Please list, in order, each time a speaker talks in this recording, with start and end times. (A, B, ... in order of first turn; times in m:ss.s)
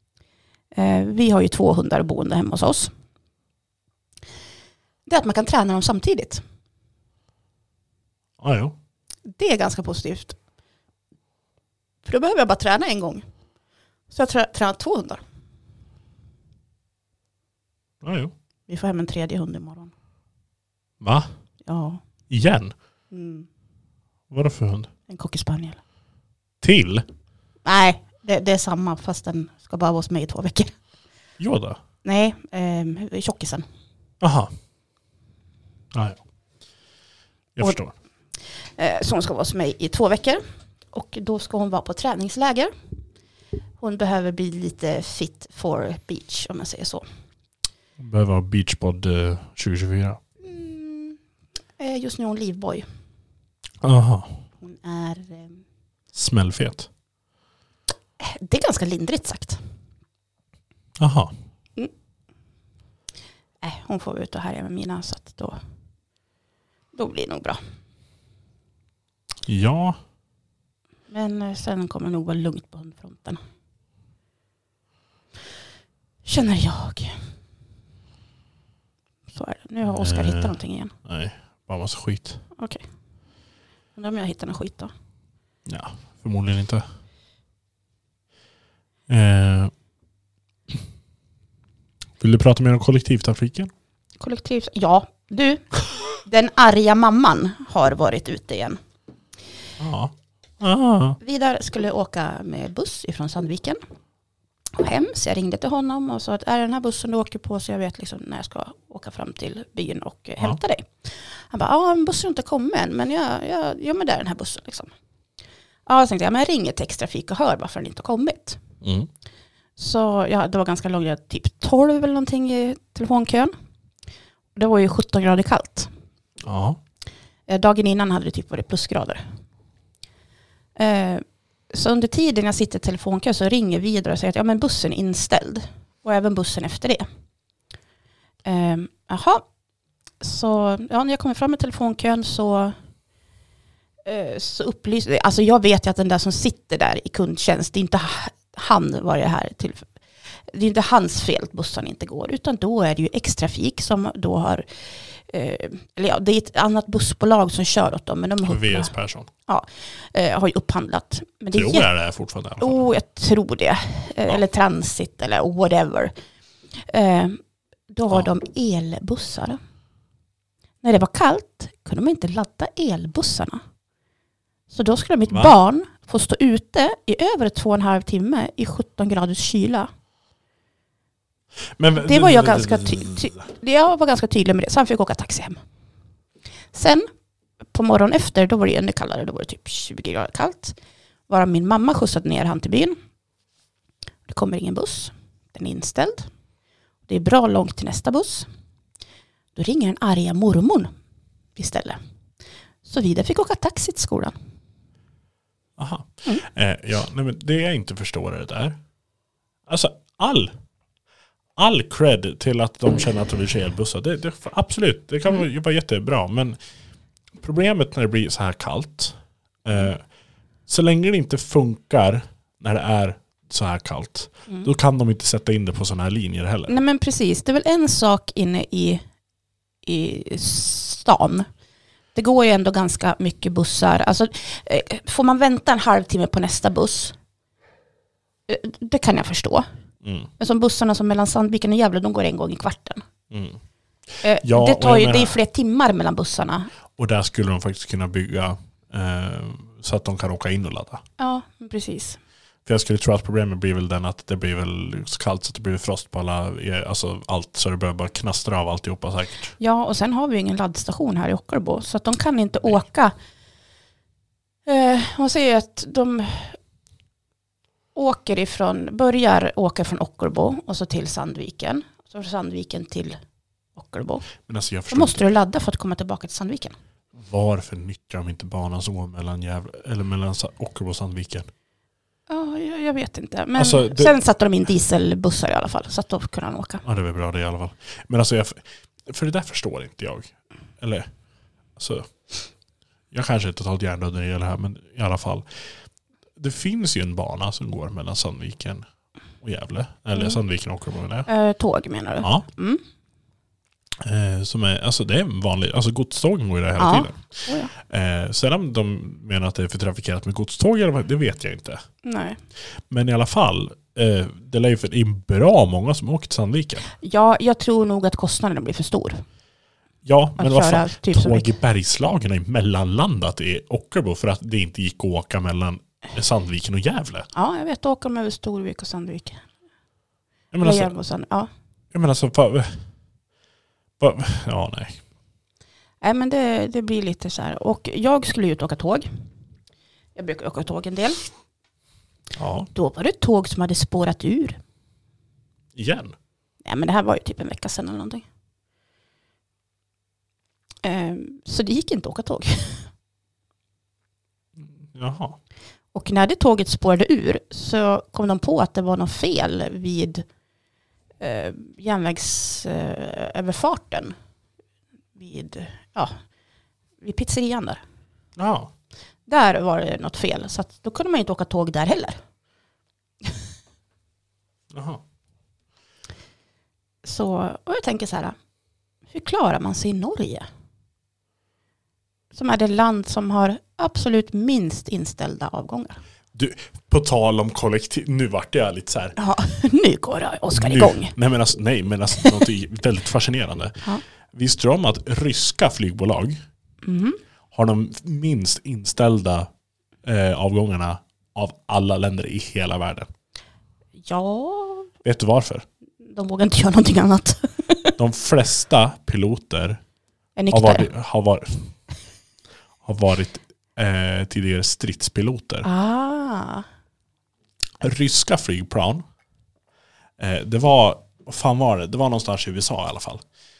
0:00.7-0:02.9 A
0:05.1-0:06.4 A
0:08.4-0:08.8 B
0:09.3-0:10.4 A
0:12.0-0:13.2 A
0:14.1-0:15.2 A
0:18.0-0:18.3 B
0:18.7-0:19.9 A
0:21.0-0:21.3 B
0:21.6-0:22.0 A
0:22.3-0:22.7 B
0:23.1-0:23.5 A
0:24.3-0:24.9 B
0:25.1-0:25.8 A
0:26.6-0:27.1 B
0:27.6-0:30.7 A
0:31.4-0:31.8 B
0:32.0-0:33.6 A
0:34.2-0:34.5 B
0:35.9-0:36.2 B
0:37.6-0:37.9 B
0:38.8-0:40.4 A
0:40.9-0:42.7 A
0:43.8-0:47.0 A
0:48.0-0:50.2 B
0:50.4-0:51.2 A
0:51.8-0:52.8 A
0:53.8-0:54.4 B
0:54.6-0:55.6 A
0:56.1-0:56.9 B
0:58.2-0:59.6 A
1:01.0-1:01.3 B
1:03.6-1:05.6 A
1:06.9-1:07.6 A
1:09.5-1:10.0 B
1:11.1-1:13.4 A
1:16.2-1:17.2 A
1:19.3-1:20.9 A
1:19.8-1:22.4 B
1:22.6-1:22.8 A
1:24.0-1:24.9 A
1:25.7-1:26.8 B
1:29.1-1:29.7 B
1:32.2-1:33.7 B
1:34.2-1:38.8 A
1:39.8-1:41.2 B
1:41.2-1:43.8 A
1:44.8-1:54.9 A
1:55.9-1:58.6 A
1:58.8-1:59.1 B
1:59.8-2:03.5 A
2:04.6-2:05.9 A
2:06.4-2:06.8 B
2:07.5-2:09.2 A
2:10.8-2:17.0 A
2:18.4-2:19.4 A
2:20.2-2:22.8 A
2:24.0-2:29.9 A
2:30.5-2:38.9 A
2:38.4-2:39.3 B
2:39.5-2:41.9 A
2:41.5-2:42.8 B
2:42.6-2:46.1 A
2:46.9-2:47.4 A
2:47.9-2:49.6 A
2:50.8-2:53.6 A
2:54.7-2:59.9 A
2:55.3-2:55.6 B
3:01.8-3:03.4 B
3:02.0-3:05.6 A
3:06.7-3:07.1 A
3:07.7-3:10.8 A
3:11.3-3:13.0 A
3:14.3-3:16.3 A
3:17.1-3:18.5 A
3:19.6-3:20.9 A
3:21.6-3:22.0 A
3:22.8-3:24.4 A
3:25.8-3:28.8 B
3:29.7-3:30.5 B
3:31.6-3:36.6 B
3:37.4-3:40.0 B
3:40.7-3:46.8 B
3:46.7-3:49.0 A
3:49.8-3:51.5 A
3:52.2-3:57.2 A
3:58.5-3:59.7 A
4:00.0-4:00.3 B
4:00.4-4:03.0 A
4:03.3-4:03.6 B
4:04.2-4:06.7 A
4:04.4-4:05.4 B
4:07.0-4:11.0 B
4:11.2-4:12.2 A
4:12.7-4:19.6 B
4:19.6-4:23.2 A
4:24.7-4:26.6 A
4:28.0-4:33.2 A
4:33.8-4:34.3 A
4:34.4-4:35.2 B
4:34.9-4:36.8 A
4:37.1-4:41.5 B
4:42.3-4:46.8 A
4:43.6-4:44.2 B
4:46.8-4:51.1 B
4:51.8-4:52.1 B
4:53.1-4:55.4 B
4:56.4-4:58.8 B
4:59.4-5:01.3 B
5:01.3-5:02.8 A
5:04.0-5:11.8 B
5:06.8-5:07.7 A
5:12.0-5:12.4 A
5:12.9-5:16.9 B
5:17.0-5:19.2 A
5:20.0-5:27.3 B
5:20.4-5:21.5 A
5:27.4-5:29.4 A
5:30.5-5:30.9 B
5:30.6-5:31.5 A
5:31.9-5:32.8 B
5:34.0-5:35.0 B
5:36.0-5:39.1 A
5:40.2-5:41.2 A
5:42.4-5:42.7 B
5:42.7-5:44.6 A
5:45.8-5:46.2 B
5:46.6-5:48.2 A
5:50.8-5:52.9 A
5:54.6-5:55.4 B
5:55.9-6:00.3 A
6:01.2-6:04.2 A
6:05.2-6:06.2 A
6:07.0-6:07.8 A
6:08.4-6:08.7 B
6:09.3-6:12.2 A
6:14.7-6:15.0 B
6:17.0-6:18.4 A
6:19.1-6:20.4 A
6:22.3-6:26.0 A
6:26.3-6:29.2 B
6:29.2-6:31.2 A
6:30.5-6:33.8 B
6:34.3-6:36.4 B
6:36.8-6:37.2 A
6:37.5-6:39.5 B
6:40.0-6:43.1 B
6:44.1-6:44.9 A
6:45.0-6:45.6 B
6:46.0-6:48.0 A
6:48.0-6:49.8 B
6:50.4-6:50.9 A
6:50.5-6:51.7 B
6:52.8-6:55.7 B
6:55.6-6:56.6 A
6:57.8-6:59.0 B
7:00.2-7:03.2 B